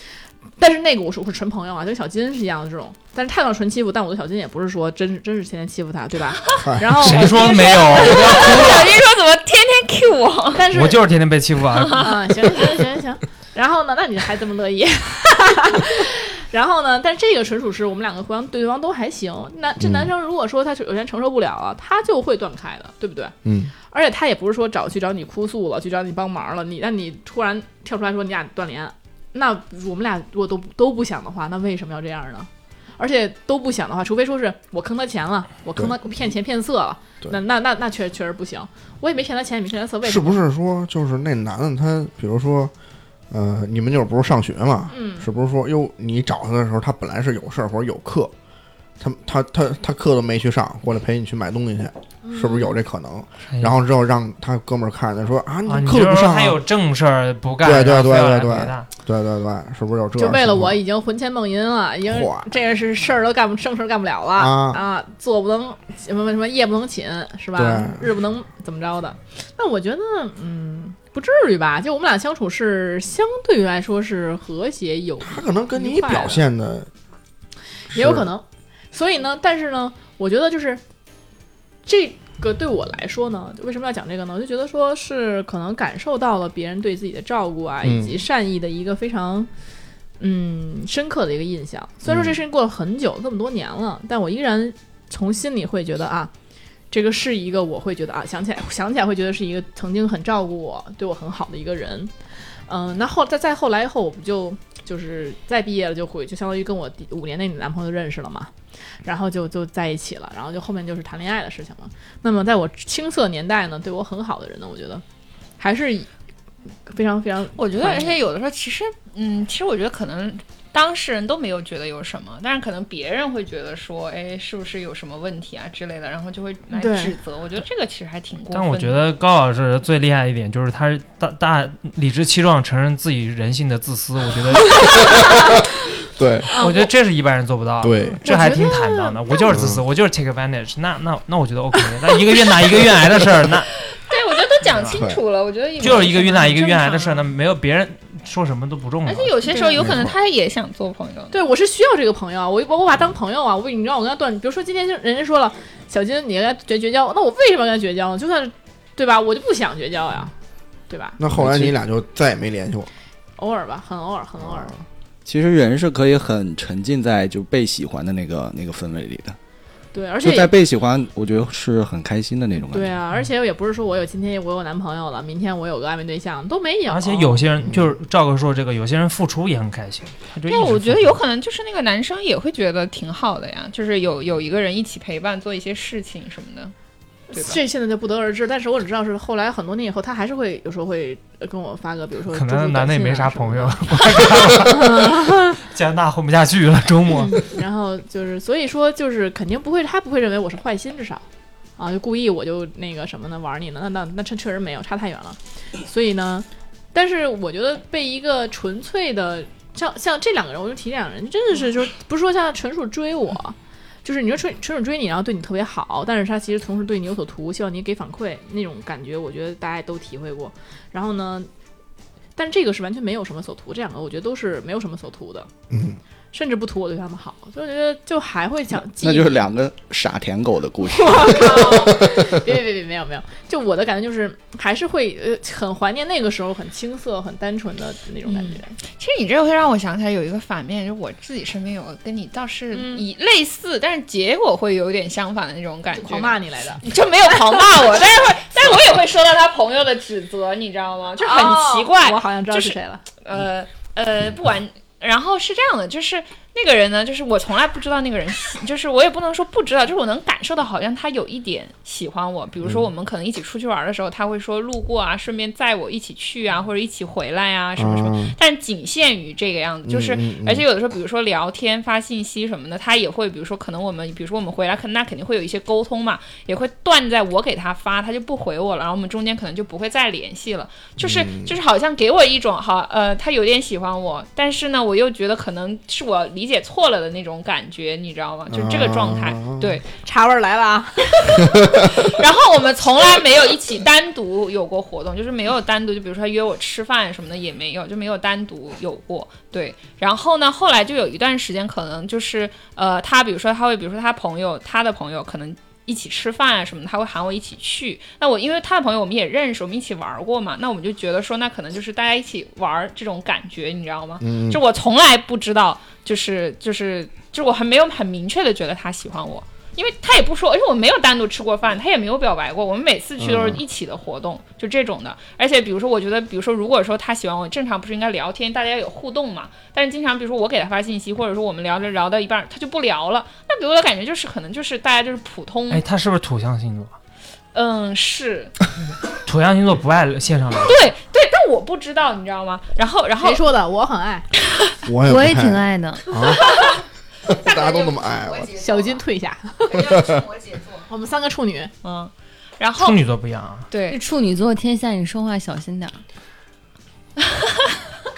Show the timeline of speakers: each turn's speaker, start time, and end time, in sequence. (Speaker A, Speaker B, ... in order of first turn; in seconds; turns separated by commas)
Speaker A: 0.6-8.5, Speaker B: 6.6-7.1, Speaker C: 7.0-8.9, Speaker D: 7.3-10.7, Speaker A: 10.5-11.0, Speaker C: 10.7-12.1, Speaker D: 11.8-12.1, Speaker A: 11.9-40.4, Speaker B: 19.8-20.1, Speaker B: 23.4-23.7, Speaker B: 40.0-42.7, Speaker B: 43.3-48.3, Speaker A: 44.9-45.3, Speaker B: 49.0-56.6, Speaker A: 52.2-52.7, Speaker C: 53.5-53.7, Speaker C: 55.6-58.9, Speaker B: 57.6-60.8, Speaker A: 60.2-76.5, Speaker B: 62.1-62.5, Speaker B: 64.4-64.8, Speaker B: 67.5-68.0, Speaker B: 75.2-76.9, Speaker A: 77.9-80.8, Speaker B: 77.9-78.3, Speaker A: 81.8-89.5, Speaker B: 87.8-88.2, Speaker A: 90.2-96.3, Speaker B: 92.1-92.3, Speaker A: 96.9-102.1, Speaker A: 102.7-108.5, Speaker A: 109.0-115.0, Speaker A: 115.6-116.1, Speaker A: 116.9-118.2, Speaker D: 117.5-129.1, Speaker A: 126.7-127.1, Speaker C: 128.5-135.2, Speaker B: 135.1-135.4, Speaker B: 136.2-136.5, Speaker A: 136.5-136.9, Speaker C: 136.6-143.7, Speaker B: 137.8-138.2, Speaker A: 138.2-139.5, Speaker B: 139.5-139.8, Speaker D: 143.9-147.2, Speaker B: 144.9-145.2, Speaker C: 145.8-149.4, Speaker D: 149.0-151.3, Speaker A: 149.5-149.8, Speaker B: 149.8-150.1, Speaker A: 151.3-160.3, Speaker A: 160.9-161.2, Speaker B: 161.2-162.9, Speaker E: 161.3-161.7, Speaker A: 163.4-164.7, Speaker E: 165.2-169.3, Speaker A: 169.9-170.5, Speaker E: 170.2-172.9, Speaker A: 172.7-177.4, Speaker C: 176.9-181.2, Speaker B: 177.6-177.9, Speaker D: 180.4-186.7, Speaker A: 187.3-195.6, Speaker D: 187.3-187.6, Speaker C: 192.3-197.5, Speaker A: 197.1-201.2, Speaker A: 201.8-221.5, Speaker A: 222.3-225.5, Speaker B: 225.7-226.0, Speaker A: 226.3-229.5, Speaker E: 229.0-231.9, Speaker A: 230.9-238.7, Speaker D: 238.2-289.9, Speaker A: 242.7-243.0, Speaker A: 245.9-247.6, Speaker A: 251.2-253.0, Speaker B: 262.6-262.9, Speaker B: 267.8-268.4, Speaker B: 269.8-270.6, Speaker B: 281.0-281.5, Speaker B: 288.5-289.8, Speaker A: 289.9-291.5, Speaker B: 291.6-291.9, Speaker D: 291.9-335.8, Speaker B: 314.2-314.6, Speaker B: 323.2-323.6, Speaker C: 335.7-336.9, Speaker D: 337.5-338.5, Speaker C: 339.2-340.8, Speaker D: 340.6-343.4, Speaker A: 343.2-344.3, Speaker B: 344.8-346.6, Speaker F: 345.0-346.1, Speaker D: 346.3-346.8, Speaker B: 347.2-348.6, Speaker D: 347.5-349.0, Speaker A: 348.6-350.1, Speaker D: 349.7-350.8, Speaker B: 349.8-350.2, Speaker A: 350.9-351.7, Speaker D: 351.8-353.0, Speaker C: 352.8-353.7, Speaker D: 353.7-354.0, Speaker F: 353.9-356.0, Speaker D: 357.2-357.8